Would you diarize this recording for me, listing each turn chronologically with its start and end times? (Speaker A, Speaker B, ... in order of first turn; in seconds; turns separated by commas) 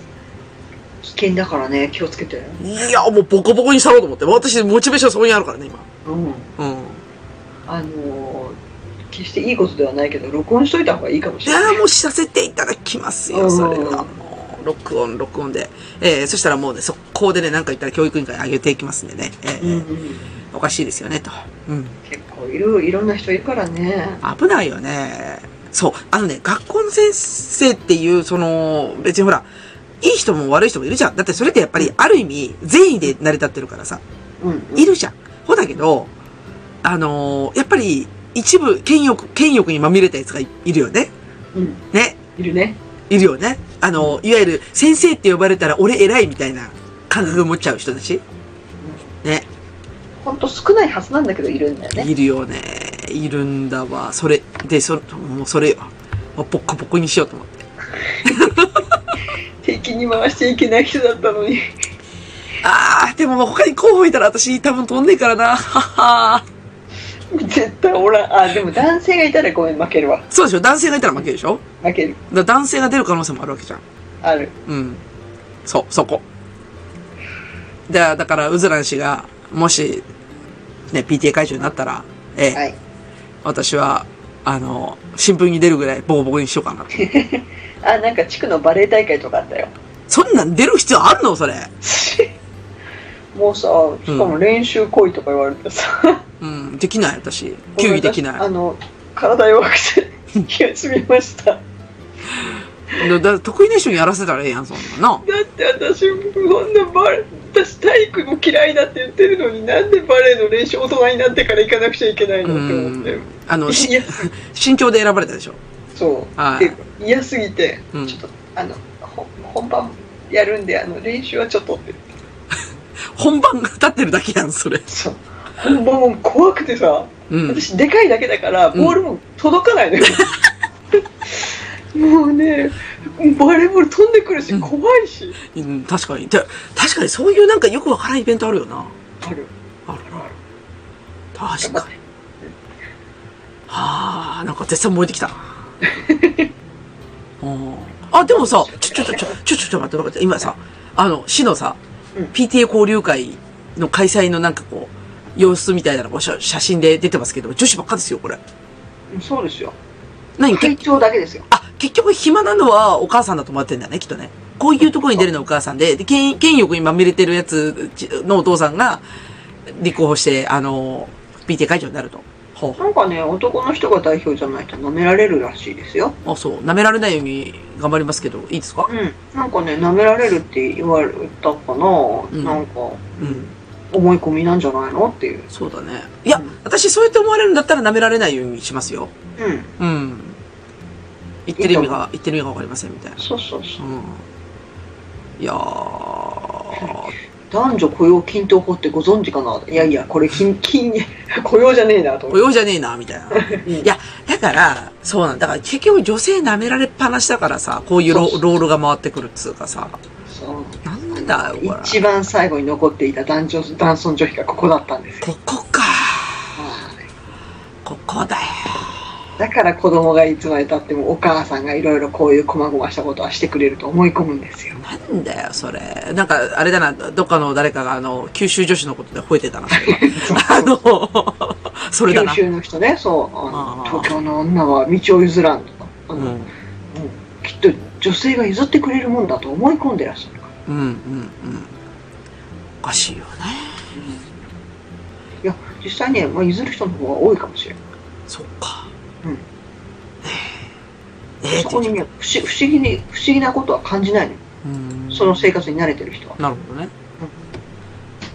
Speaker A: 1.0-2.6, Speaker B: 2.6-5.8, Speaker A: 6.0-6.5, Speaker B: 6.6-7.0, Speaker A: 7.7-8.6, Speaker A: 9.1-11.8, Speaker B: 11.4-19.9, Speaker A: 13.3-14.1, Speaker A: 19.6-20.2, Speaker B: 20.5-22.0, Speaker A: 22.1-24.2, Speaker B: 24.2-29.5, Speaker B: 30.0-34.0, Speaker A: 34.4-34.9, Speaker B: 34.8-36.1, Speaker B: 36.8-41.1, Speaker A: 41.5-41.8, Speaker B: 41.9-42.2, Speaker A: 42.4-42.8, Speaker B: 43.1-48.2, Speaker A: 50.2-52.1, Speaker B: 52.0-57.6, Speaker A: 58.0-58.5, Speaker B: 58.2-59.0, Speaker A: 59.6-61.7, Speaker B: 62.6-66.4, Speaker A: 67.3-70.3, Speaker B: 70.3-71.6, Speaker A: 71.8-72.2, Speaker B: 72.3-73.8, Speaker A: 74.2-74.5, Speaker B: 74.7-75.0, Speaker B: 75.6-76.2, Speaker B: 77.9-80.0, Speaker B: 80.9-82.6, Speaker B: 83.4-87.0, Speaker A: 86.9-89.7, Speaker B: 90.1-91.7, Speaker A: 91.8-92.3, Speaker A: 93.3-96.2, Speaker B: 94.1-94.3, Speaker B: 96.4-98.4, Speaker A: 97.8-101.6, Speaker B: 102.4-105.2, Speaker A: 105.2-114.3, Speaker B: 112.4-115.6, Speaker A: 115.9-122.0, Speaker B: 116.4-116.8, Speaker B: 117.9-118.2, Speaker B: 123.1-124.9, Speaker A: 124.9-130.3, Speaker B: 127.3-127.6, Speaker B: 128.7-129.0, Speaker A: 131.2-135.4, Speaker B: 135.4-138.9, Speaker A: 139.2-139.5, Speaker B: 139.9-140.2, Speaker B: 141.3-141.9, Speaker A: 141.6-142.5, Speaker B: 143.7-145.5, Speaker A: 145.8-146.5, Speaker B: 147.4-151.8, Speaker A: 148.3-149.3, Speaker B: 152.3-158.4, Speaker A: 159.1-159.8, Speaker B: 160.4-160.8, Speaker A: 160.5-161.5, Speaker B: 161.5-169.0, Speaker B: 169.7-172.8, Speaker A: 172.8-176.2, Speaker B: 176.2-178.9, Speaker A: 178.9-185.5, Speaker B: 182.3-182.6, Speaker B: 185.5-189.1, Speaker A: 189.4-189.7, Speaker B: 189.8-190.4, Speaker B: 191.4-193.2, Speaker A: 191.6-192.0, Speaker A: 193.2-193.8, Speaker B: 193.8-194.2, Speaker B: 195.4-197.1, Speaker A: 196.7-202.4, Speaker B: 202.3-210.0, Speaker A: 203.3-203.9, Speaker A: 208.1-208.4, Speaker A: 210.3-215.3, Speaker B: 210.8-212.0, Speaker B: 215.2-216.6, Speaker A: 216.6-217.1, Speaker B: 217.8-219.0, Speaker A: 219.4-224.8, Speaker B: 224.8-232.4, Speaker A: 229.7-230.7, Speaker A: 232.1-240.5, Speaker B: 233.5-234.1, Speaker B: 236.1-236.5, Speaker B: 240.7-241.7, Speaker B: 242.8-243.8, Speaker A: 243.9-244.3, Speaker A: 245.4-247.8, Speaker B: 248.3-248.9, Speaker B: 250.2-250.7, Speaker B: 251.4-251.9, Speaker A: 251.6-254.4, Speaker B: 254.6-255.5, Speaker A: 255.1-256.4, Speaker B: 256.4-256.9